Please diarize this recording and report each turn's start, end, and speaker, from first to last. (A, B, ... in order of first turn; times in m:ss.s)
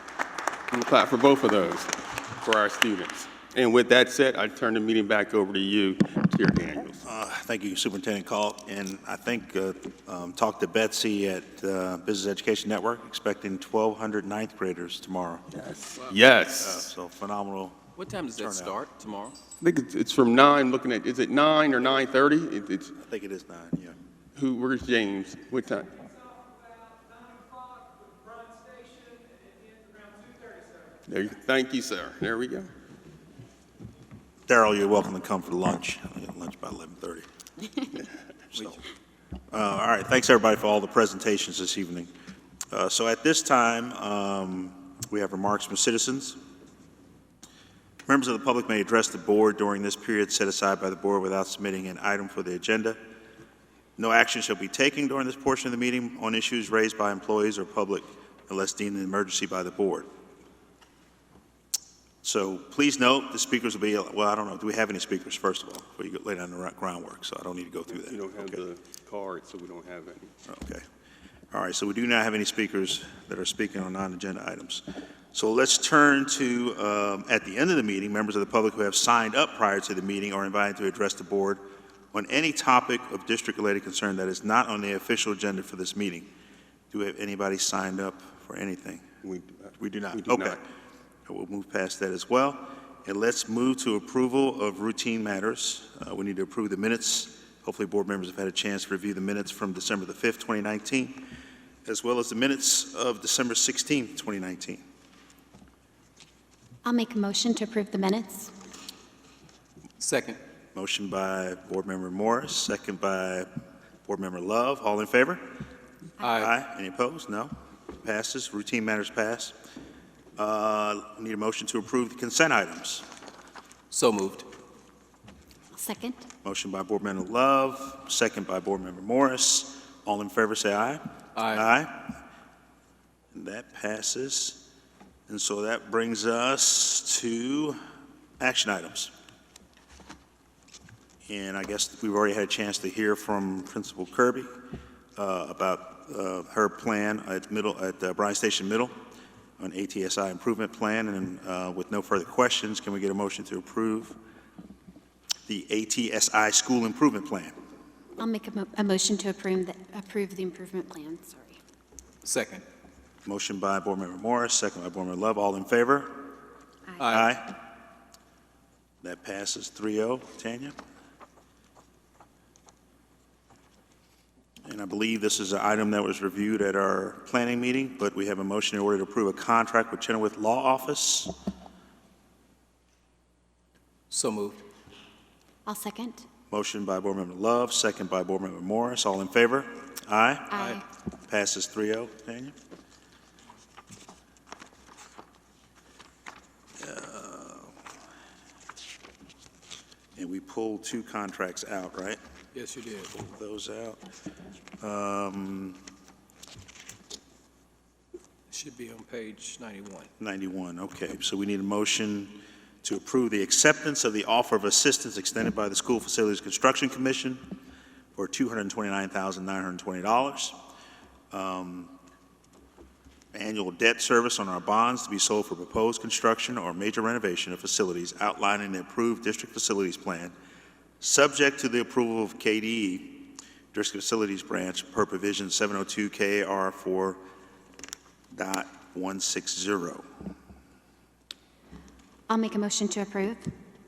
0:00.7-0:07.0 A
0:07.0-0:15.4 B
0:15.6-0:16.9 A
0:16.6-0:18.8 B
0:18.0-0:19.4 C
0:19.6-0:22.9 A
0:23.0-0:24.0 B
0:24.4-0:25.9 A
0:31.1-0:32.7 A
0:34.5-0:37.3 B
0:38.5-0:38.8 B
0:39.5-0:42.1 B
0:42.7-0:46.4 B
0:48.1-0:53.0 B
0:54.0-1:00.1 B
1:02.2-1:08.6 B
1:07.9-1:10.3 A
1:10.5-1:10.8 B
1:11.5-1:21.6 B
1:22.1-1:26.3 B
1:26.9-1:29.0 B
1:29.2-1:30.6 A
1:29.8-1:30.6 B
1:31.3-1:41.2 B
1:41.9-1:44.8 B
1:46.8-1:48.5 D
1:50.0-1:50.4 C
1:50.8-1:53.5 B
1:54.0-1:55.4 B
1:56.2-1:56.5 C
1:56.3-1:59.5 B
2:00.4-2:03.0 B
2:03.9-2:04.5 C
2:05.7-2:06.2 D
2:06.4-2:12.1 B
2:11.4-2:11.7 C
2:13.3-2:14.6 B
2:15.3-2:17.8 B
2:18.4-2:19.1 B
2:21.3-2:24.5 B
2:25.2-2:28.9 B
2:29.6-2:34.2 B
2:35.5-2:37.5 B
2:38.2-2:41.6 D
2:42.2-2:42.6 C
2:43.2-2:46.3 B
2:47.0-2:47.3 C
2:47.1-2:47.6 B
2:49.0-2:50.8 B
2:54.7-3:01.3 B
3:04.1-3:04.6 C
3:05.7-3:06.3 D
3:06.5-3:12.5 B
3:10.5-3:10.8 D
3:16.8-3:17.7 B
3:20.2-3:22.2 B
3:22.5-3:23.1 C
3:23.1-3:24.0 B
3:24.8-3:25.8 B
3:28.5-3:30.1 C
3:30.2-3:37.5 B
3:38.2-3:40.6 B
3:41.3-3:41.9 B
3:43.3-3:50.3 B
3:51.0-3:57.2 B
3:58.3-4:00.0 B
4:02.3-4:03.5 D